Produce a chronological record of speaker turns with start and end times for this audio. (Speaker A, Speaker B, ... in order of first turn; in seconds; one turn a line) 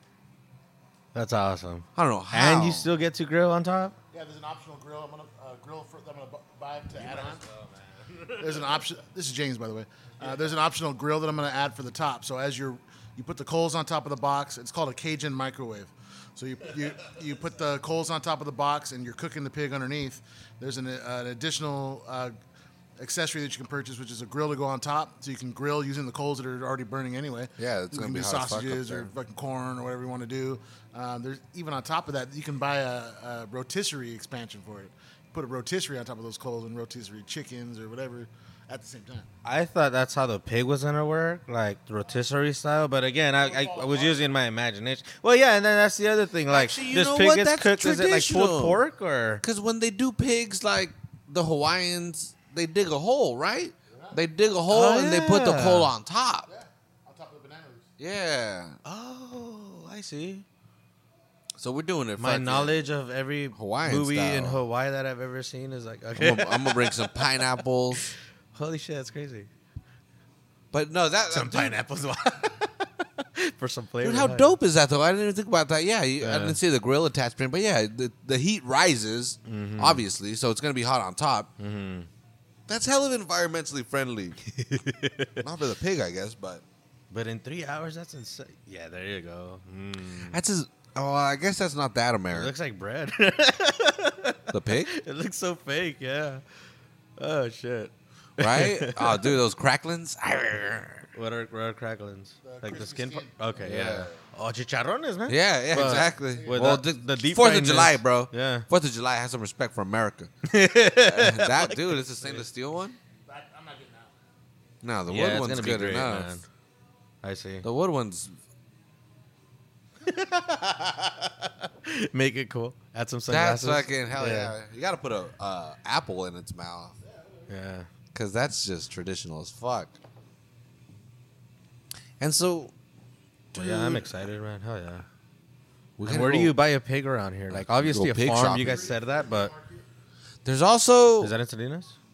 Speaker A: 1.1-4.0
Speaker B: 2.0-2.9
Speaker C: 4.1-7.4
Speaker A: 6.9-8.8
Speaker C: 8.4-22.4
Speaker C: 23.0-39.3
Speaker B: 27.6-29.1
Speaker A: 39.4-49.4
Speaker C: 43.4-44.2
Speaker B: 46.5-48.8
Speaker B: 49.4-56.5
Speaker C: 53.9-54.2
Speaker A: 54.7-55.9
Speaker C: 56.5-57.9
Speaker B: 58.0-58.8
Speaker A: 58.9-60.5
Speaker B: 61.6-62.8
Speaker A: 62.2-67.4
Speaker B: 63.5-64.6
Speaker B: 66.2-68.1
Speaker A: 68.5-69.5
Speaker B: 70.7-71.8
Speaker A: 71.3-74.6
Speaker B: 74.0-81.5
Speaker A: 76.2-76.6
Speaker A: 79.5-80.1
Speaker A: 81.6-82.1
Speaker B: 82.7-84.4
Speaker A: 84.5-85.4
Speaker B: 85.4-86.6
Speaker A: 87.1-90.4
Speaker B: 90.3-92.5
Speaker A: 92.3-96.4
Speaker B: 94.5-94.9
Speaker A: 97.2-99.3
Speaker B: 98.4-101.1
Speaker A: 101.1-108.7
Speaker C: 102.4-103.4
Speaker B: 103.6-104.1
Speaker B: 105.3-110.3
Speaker C: 105.7-106.7
Speaker A: 110.5-112.4
Speaker B: 111.0-113.0
Speaker C: 113.3-114.2
Speaker B: 114.8-116.3
Speaker A: 115.1-116.5
Speaker A: 117.2-117.7
Speaker B: 117.6-118.4
Speaker A: 120.0-124.5
Speaker B: 123.3-127.0
Speaker C: 127.0-127.5
Speaker A: 127.5-127.9
Speaker B: 128.1-130.0
Speaker B: 132.2-132.7
Speaker B: 133.5-134.2
Speaker A: 133.5-135.1
Speaker B: 136.0-136.6
Speaker A: 136.1-139.5
Speaker B: 137.5-138.9
Speaker C: 138.6-139.8
Speaker B: 140.4-141.3
Speaker A: 141.2-142.0